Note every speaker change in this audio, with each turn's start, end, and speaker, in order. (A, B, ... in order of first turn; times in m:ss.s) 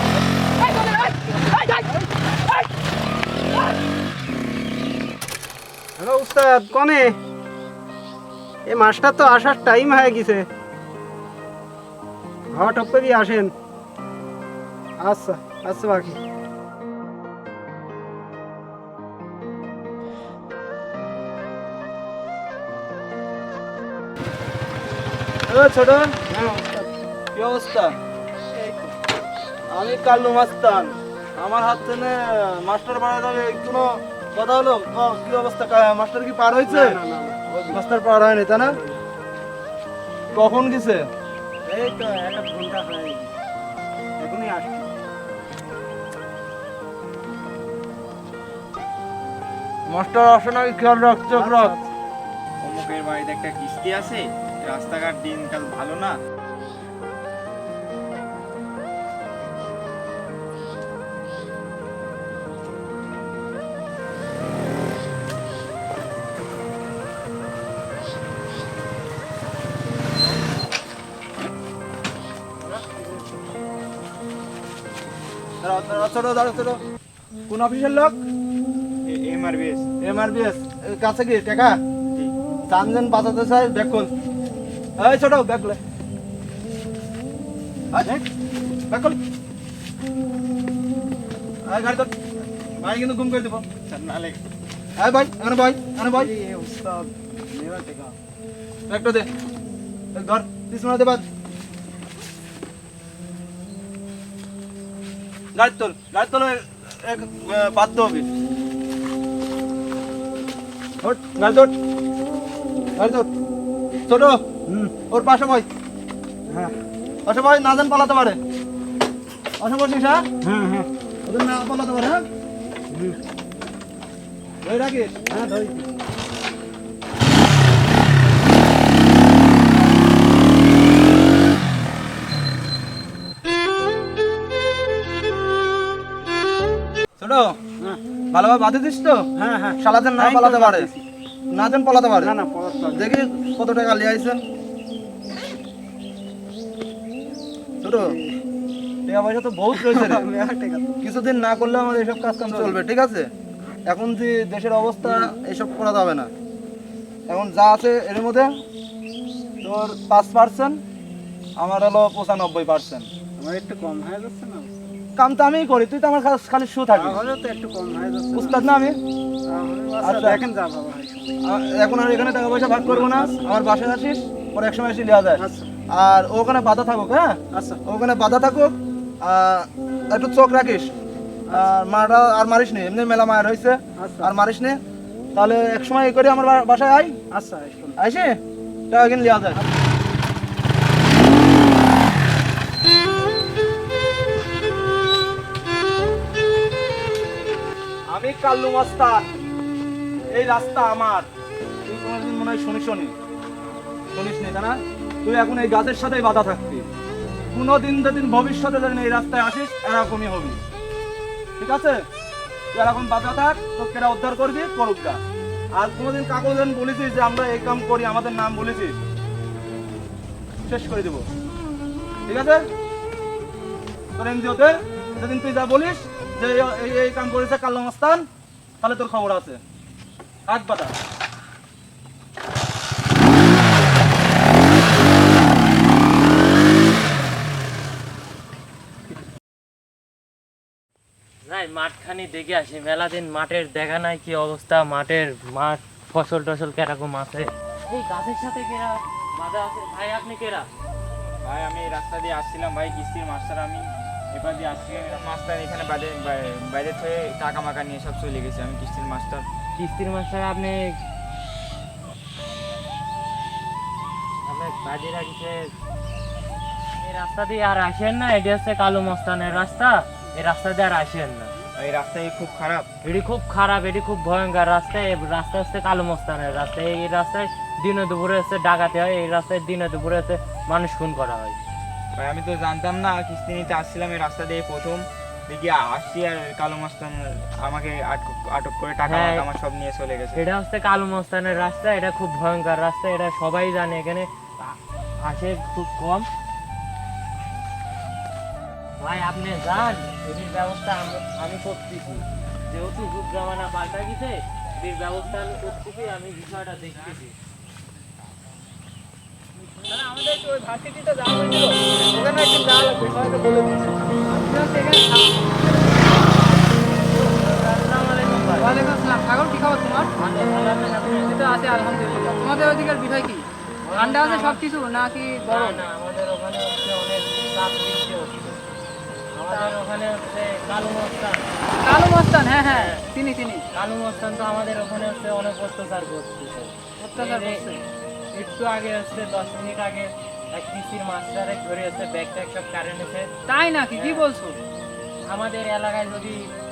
0:00.6-0:01.9 A
0:06.0-0:07.2 B
0:08.6-0:10.5 B
0:12.5-0:13.5 B
0:15.0-0:16.2 B
0:25.5-0:26.1 C
0:26.3-0:26.9 B
0:27.3-0:28.0 C
0:28.5-0:28.9 B
0:29.7-0:37.0 C
0:36.7-0:37.8 B
0:37.5-0:38.8 C
0:38.6-0:39.0 B
0:40.3-0:41.1 C
0:41.6-0:43.3 B
0:44.2-0:44.9 B
0:49.9-0:51.8 C
0:51.3-0:51.8 B
0:52.6-0:56.2 D
1:12.8-1:13.1 B
1:15.6-1:16.8 C
1:17.5-1:18.2 C
1:19.0-1:19.9 D
1:20.0-1:21.8 C
1:22.7-1:24.1 C
1:25.0-1:25.8 C
1:28.9-1:29.2 C
1:31.6-1:32.1 C
1:32.8-1:33.6 C
1:33.8-1:34.4 D
1:35.0-1:36.3 C
1:36.1-1:38.1 B
1:38.9-1:39.3 C
1:40.1-1:41.2 C
1:45.5-1:48.3 C
1:51.0-1:51.7 C
1:53.0-1:53.3 C
1:54.1-1:54.4 C
1:54.7-1:55.0 B
1:55.1-1:55.7 C
1:56.5-1:56.8 B
1:57.2-1:58.4 C
1:59.6-2:00.2 C
2:00.4-2:00.9 B
2:01.2-2:02.2 C
2:02.9-2:03.2 B
2:04.6-2:05.2 C
2:05.3-2:05.9 B
2:17.2-2:17.6 C
2:18.3-2:19.3 C
2:19.4-2:21.0 B
2:19.8-2:20.9 C
2:21.5-2:22.3 C
2:22.2-2:23.2 B
2:22.9-2:24.4 C
2:27.8-2:28.2 C
2:28.0-2:28.4 B
2:29.1-2:30.3 C
2:29.7-2:30.9 B
2:31.0-2:33.3 C
2:32.4-2:32.8 B
2:33.8-2:36.3 C
2:35.0-2:35.3 B
2:37.3-2:38.5 C
2:39.6-2:40.8 C
2:41.6-2:43.1 C
2:43.4-2:44.7 B
2:45.2-2:47.2 C
2:46.9-2:48.6 B
2:48.3-2:49.0 C
2:49.5-2:51.4 B
2:50.0-2:50.4 C
2:51.4-3:00.9 C
2:52.8-2:53.5 B
2:55.4-2:55.7 B
2:57.5-2:57.8 B
3:01.5-3:01.8 B
3:01.5-3:04.8 C
3:04.0-3:04.3 B
3:05.3-3:07.2 C
3:07.3-3:08.0 B
3:08.0-3:08.4 C
3:08.9-3:09.6 C
3:09.5-3:09.8 B
3:18.1-3:19.3 C
3:20.3-3:21.3 C
3:21.8-3:23.1 C
3:24.1-3:26.8 C
3:27.5-3:30.6 C
3:31.6-3:32.0 C
3:32.7-3:35.2 C
3:35.7-3:39.0 C
3:40.7-3:41.2 C
3:42.3-3:42.6 C
3:44.2-3:48.2 C
3:48.8-3:49.6 C
3:50.5-3:50.9 C
4:01.4-4:10.7 E
4:11.4-4:19.4 D
4:19.8-4:21.0 E
4:24.4-4:25.7 E
4:27.0-4:31.5 E
4:31.8-4:32.9 D
4:33.0-4:41.6 E
4:42.2-4:50.4 D
4:49.0-4:49.5 E
4:50.3-4:56.3 E
4:59.0-5:07.3 E
5:09.9-5:15.9 A
5:17.1-5:18.7 E
5:18.6-5:20.1 A
5:20.2-5:21.4 E
5:21.2-5:25.8 A
5:23.8-5:24.6 E
5:25.4-5:28.6 E
5:29.3-5:31.4 E
5:31.8-5:33.6 A
5:32.7-5:33.0 E
5:33.7-5:37.6 E
5:37.0-5:37.8 A
5:38.3-5:43.3 E
5:43.5-5:44.6 A
5:44.0-5:44.2 E
5:45.2-5:46.5 E